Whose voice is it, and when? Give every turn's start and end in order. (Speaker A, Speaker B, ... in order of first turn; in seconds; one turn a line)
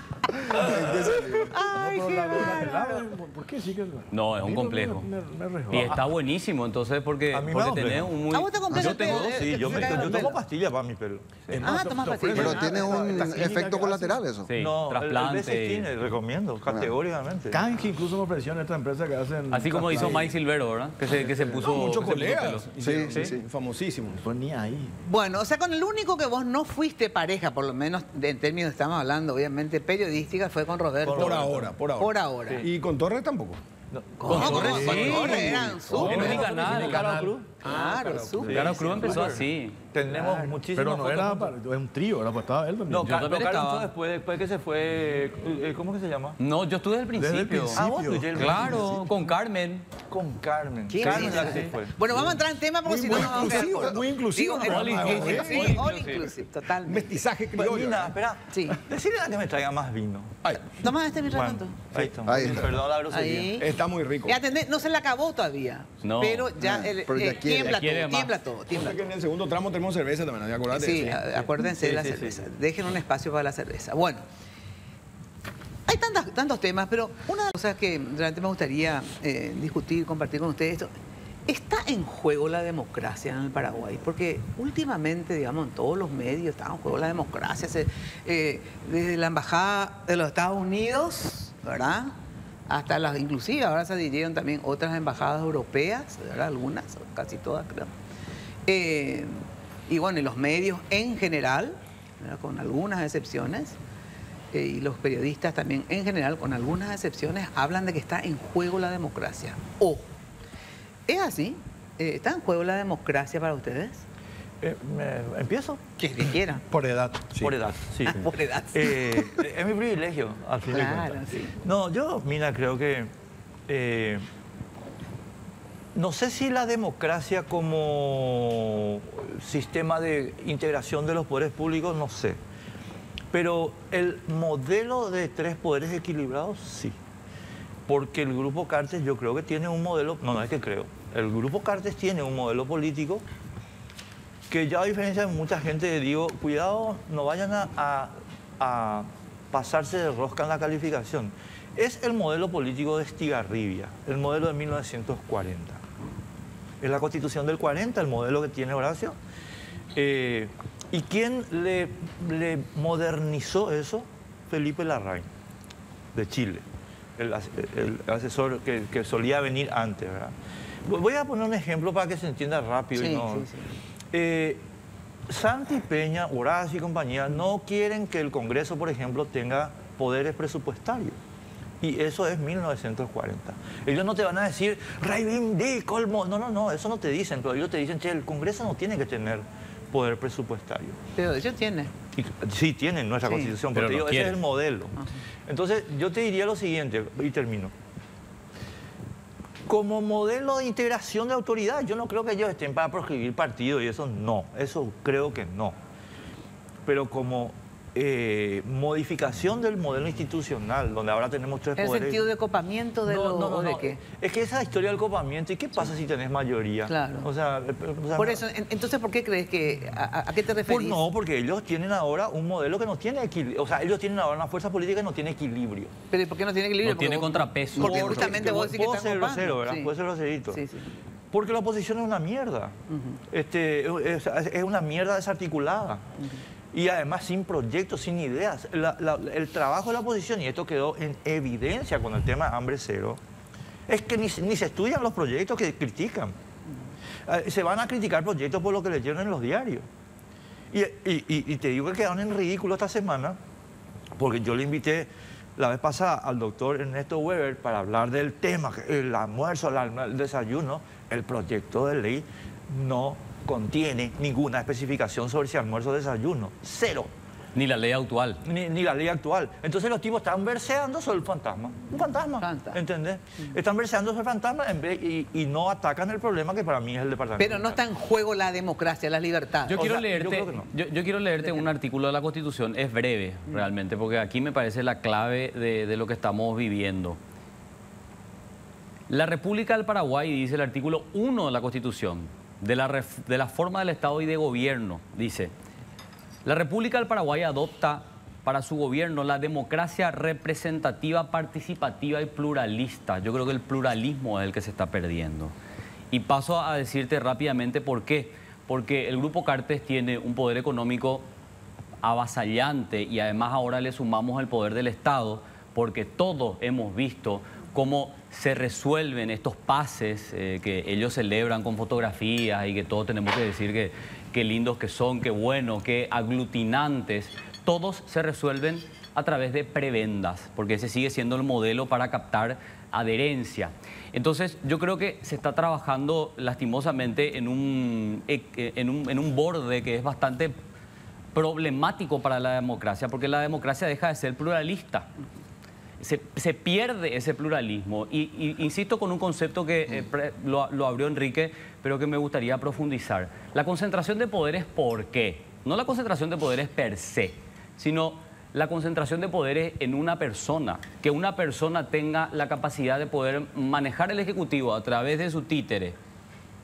Speaker A: 0.4-0.7
Speaker B: 0.5-6.0
Speaker C: 0.6-1.5
Speaker A: 1.5-3.0
Speaker D: 4.1-5.1
Speaker D: 5.7-10.2
Speaker E: 7.3-11.6
Speaker A: 8.3-10.4
Speaker B: 11.5-14.2
Speaker A: 11.6-13.3
Speaker C: 12.3-14.5
Speaker D: 14.4-15.9
Speaker E: 14.5-17.6
Speaker C: 16.7-16.9
Speaker B: 17.5-20.4
Speaker D: 19.5-23.3
Speaker F: 21.1-24.2
Speaker C: 22.8-23.4
Speaker B: 24.2-24.9
Speaker A: 25.0-32.6
Speaker E: 31.0-31.7
Speaker F: 31.1-33.6
Speaker E: 33.9-37.5
Speaker A: 34.2-36.4
Speaker D: 34.2-37.2
Speaker B: 34.4-35.1
Speaker F: 34.5-39.1
Speaker G: 35.9-37.4
Speaker A: 37.6-39.2
Speaker E: 38.4-41.5
Speaker D: 38.8-39.8
Speaker B: 40.1-43.2
Speaker E: 42.9-46.4
Speaker D: 43.0-43.9
Speaker D: 46.4-49.9
Speaker B: 47.2-49.0
Speaker E: 47.5-49.1
Speaker E: 50.1-52.4
Speaker A: 50.9-57.2
Speaker F: 51.0-51.7
Speaker F: 52.8-55.9
Speaker C: 53.2-54.0
Speaker D: 54.6-56.3
Speaker F: 56.8-58.2
Speaker E: 57.5-60.4
Speaker A: 58.5-58.8
Speaker F: 60.4-60.7
Speaker A: 60.7-61.8
Speaker E: 61.2-63.6
Speaker C: 62.2-62.8
Speaker A: 63.1-63.7
Speaker F: 63.6-64.4
Speaker A: 64.2-69.0
Speaker D: 66.0-66.5
Speaker C: 66.6-67.8
Speaker D: 67.6-68.3
Speaker F: 68.7-71.2
Speaker A: 70.7-74.2
Speaker E: 71.3-72.4
Speaker A: 75.9-80.9
Speaker A: 81.5-92.1
Speaker A: 92.7-97.9
Speaker A: 98.7-103.8
Speaker A: 104.5-110.1
Speaker A: 111.1-114.0
Speaker E: 114.6-115.8
Speaker A: 116.0-116.6
Speaker G: 116.7-117.6
Speaker E: 117.4-123.1
Speaker A: 118.1-119.4
Speaker A: 120.7-121.5
Speaker E: 123.7-124.2
Speaker E: 125.9-132.4
Speaker E: 133.3-137.0
Speaker E: 137.9-143.2
Speaker E: 144.5-155.8
Speaker E: 156.8-159.2
Speaker E: 159.9-165.3
Speaker E: 166.1-166.6
Speaker E: 167.2-173.5
Speaker A: 172.9-173.7
Speaker E: 174.1-174.6
Speaker E: 175.3-181.2
Speaker E: 181.8-191.0
Speaker A: 191.2-191.9
Speaker E: 192.1-197.7
Speaker A: 193.2-193.5
Speaker D: 193.7-194.4
Speaker E: 199.7-205.8
Speaker E: 206.8-212.3
Speaker A: 211.8-214.0
Speaker E: 213.1-218.4
Speaker A: 216.9-217.3
Speaker A: 218.2-221.0
Speaker E: 220.7-225.9
Speaker A: 226.1-229.9
Speaker D: 226.8-228.4
Speaker C: 227.8-228.2
Speaker E: 227.8-230.6
Speaker A: 230.5-230.9
Speaker E: 231.3-232.8
Speaker A: 232.9-233.2
Speaker E: 233.3-236.1
Speaker E: 236.7-243.2
Speaker E: 243.9-246.3
Speaker E: 247.3-249.8
Speaker E: 250.7-253.4
Speaker E: 254.2-267.1
Speaker D: 267.5-268.4
Speaker E: 268.4-277.8
Speaker A: 272.4-272.8
Speaker A: 277.4-279.8
Speaker E: 279.7-280.7
Speaker D: 279.7-287.2
Speaker D: 289.1-295.5
Speaker D: 296.4-305.5
Speaker D: 306.1-311.2
Speaker D: 312.0-340.6
Speaker D: 341.3-345.1
Speaker D: 346.0-365.9